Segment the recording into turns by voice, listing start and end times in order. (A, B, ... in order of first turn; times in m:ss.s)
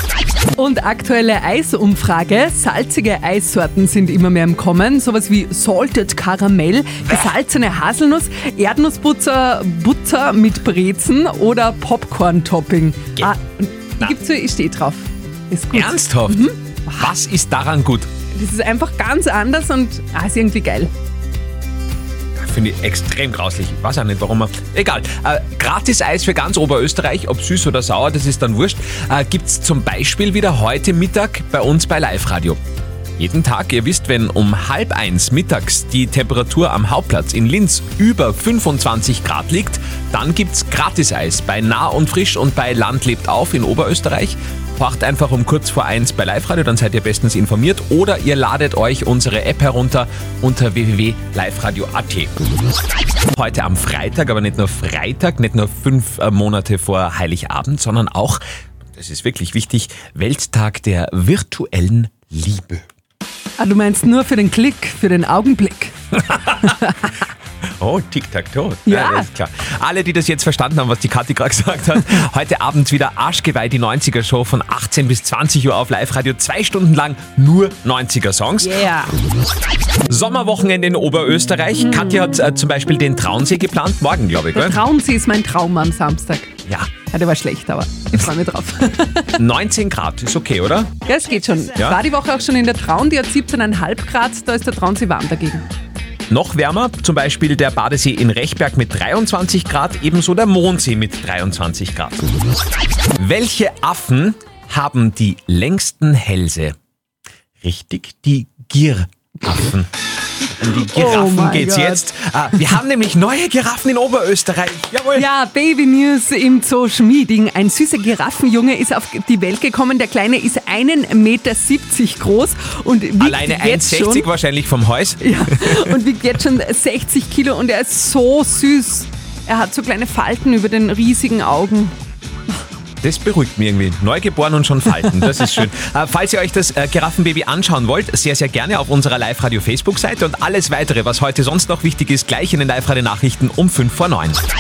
0:00.6-0:17.0 A
0:15.7-0:18.1 B
0:18.3-0:20.9 A
0:22.4-0:32.6 B
0:33.2-0:52.3 B
0:53.3-0:58.4 B
0:59.0-1:02.8 B
1:03.6-1:05.9 A
1:06.3-1:06.8 B
1:07.8-1:18.8 B
1:08.9-1:09.3 A
1:18.6-1:19.1 A
1:20.1-1:24.8 B
1:21.9-1:22.2 A
1:24.5-1:26.5 A
1:27.1-1:29.3 A
1:29.4-1:31.0 B
1:31.1-1:35.6 A
1:36.3-1:42.2 B
1:43.2-1:46.8 B
1:47.6-1:49.9 B
1:50.6-1:55.3 B
1:50.6-1:52.0 A
1:55.2-2:04.3 A
2:03.2-2:05.3 B
2:05.2-2:11.9 A
2:13.0-2:24.4 B